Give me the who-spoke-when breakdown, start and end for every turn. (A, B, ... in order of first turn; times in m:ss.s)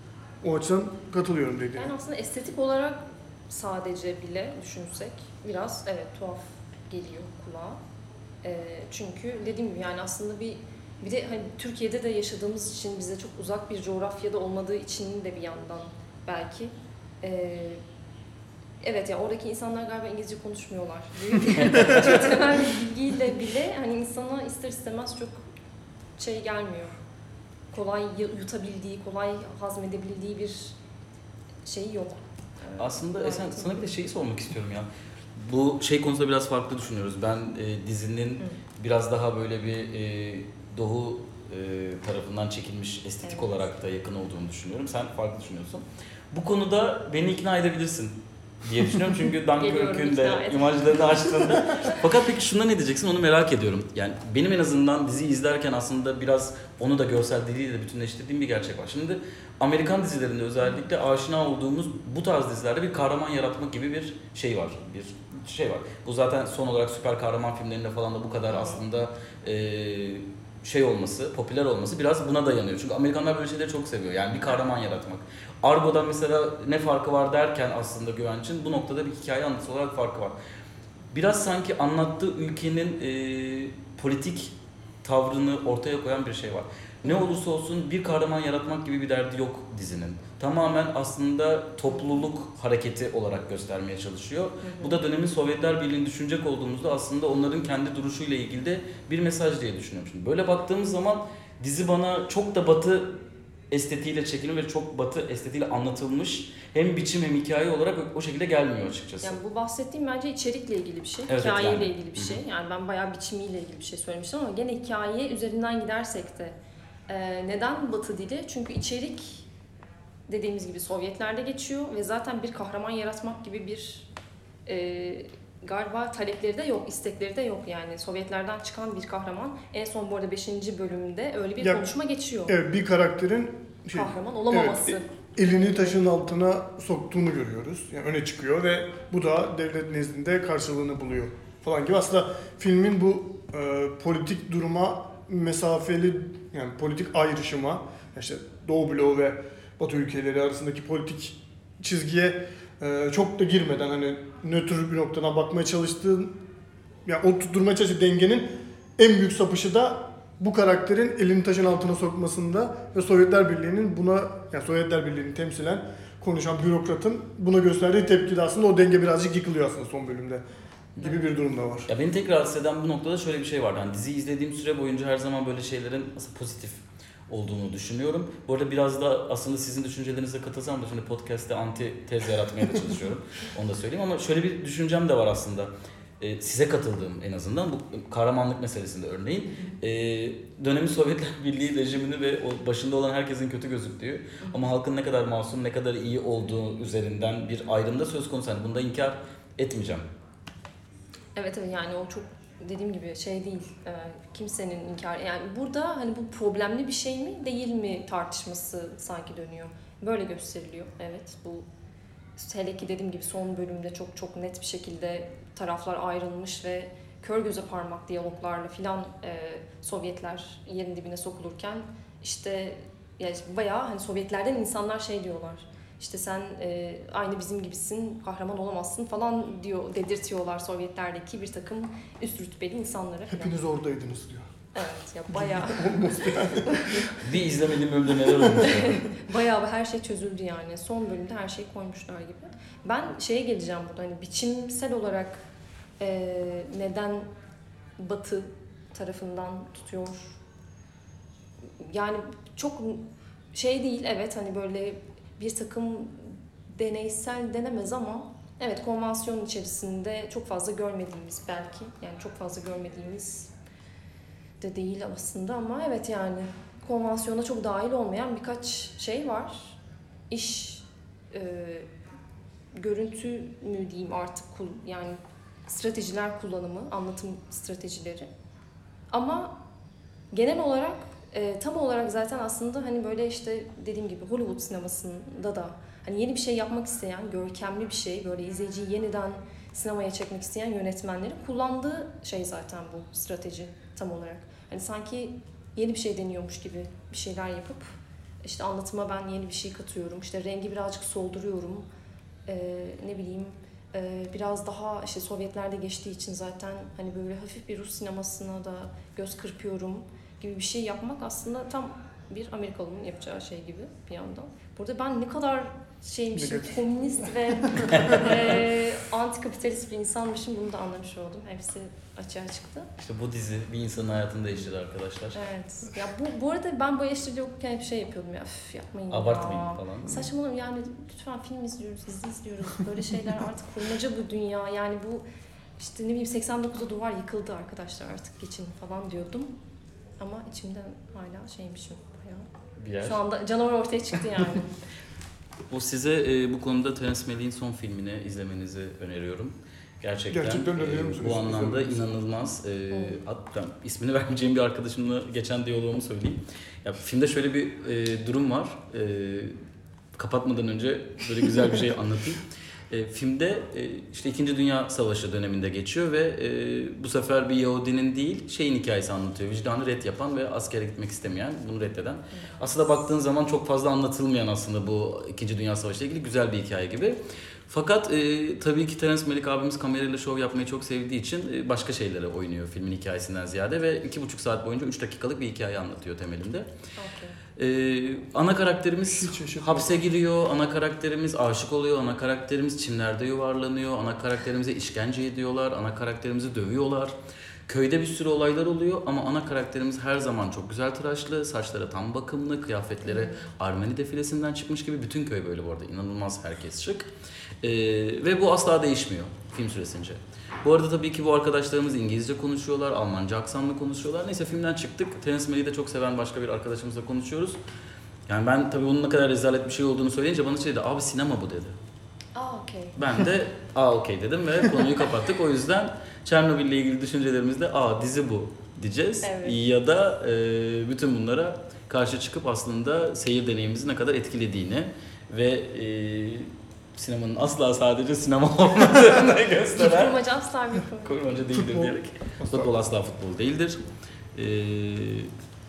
0:00.4-0:01.9 A
0:01.8-0:07.8 B
0:08.4-0:17.8 B
0:18.8-0:25.4 B
0:26.2-0:27.0 B
0:27.7-0:30.8 B
0:31.6-0:33.9 B
0:32.8-1:20.4 C
0:43.2-0:43.6 B
0:49.6-0:51.6 B
1:08.5-1:08.8 B
1:21.1-1:49.4 C
1:34.6-1:35.0 B
1:49.2-1:56.6 B
1:51.3-1:52.4 C
1:57.1-1:59.5 B
2:00.3-2:04.1 B
2:04.6-2:12.6 B
2:12.5-2:36.4 A
2:13.9-2:16.0 B
2:37.0-2:50.4 A
2:51.0-2:51.9 A
2:51.9-3:20.0 C
3:21.3-3:31.6 B
3:32.4-3:53.6 B
3:53.3-3:54.5 A
3:54.7-3:57.1 B
3:55.3-3:57.0 A
3:57.2-3:59.1 C
3:58.6-4:05.4 B
4:06.0-4:07.3 B
4:08.0-4:10.4 B
4:11.8-4:23.5 B
4:24.6-4:29.8 B
4:30.3-4:31.9 B
4:32.7-4:38.3 B
4:39.1-4:39.5 B
4:40.3-4:57.8 B
4:58.4-5:01.9 B
5:02.4-5:22.9 B
5:16.3-5:18.5 A
5:17.9-5:18.4 C
5:23.0-5:25.4 C
5:25.3-5:35.2 B
5:29.1-5:30.3 C
5:35.8-5:39.5 B
5:40.2-5:42.5 B
5:42.8-5:43.2 C
5:43.0-5:44.8 B
5:45.7-5:59.6 C
5:50.3-5:52.1 A
6:00.2-6:26.7 C
6:12.3-6:12.7 B
6:27.0-6:27.4 B
6:27.6-6:37.1 C
6:29.0-6:30.0 A
6:37.7-6:47.1 C
6:43.0-6:43.5 B
6:47.6-6:57.6 C
6:58.3-7:01.8 C
7:02.3-7:03.0 B
7:03.0-7:20.2 C
7:09.2-7:09.6 B
7:19.7-7:21.6 B
7:21.0-7:23.8 C
7:21.6-7:21.9 A
7:22.4-7:22.7 A
7:24.3-7:25.3 C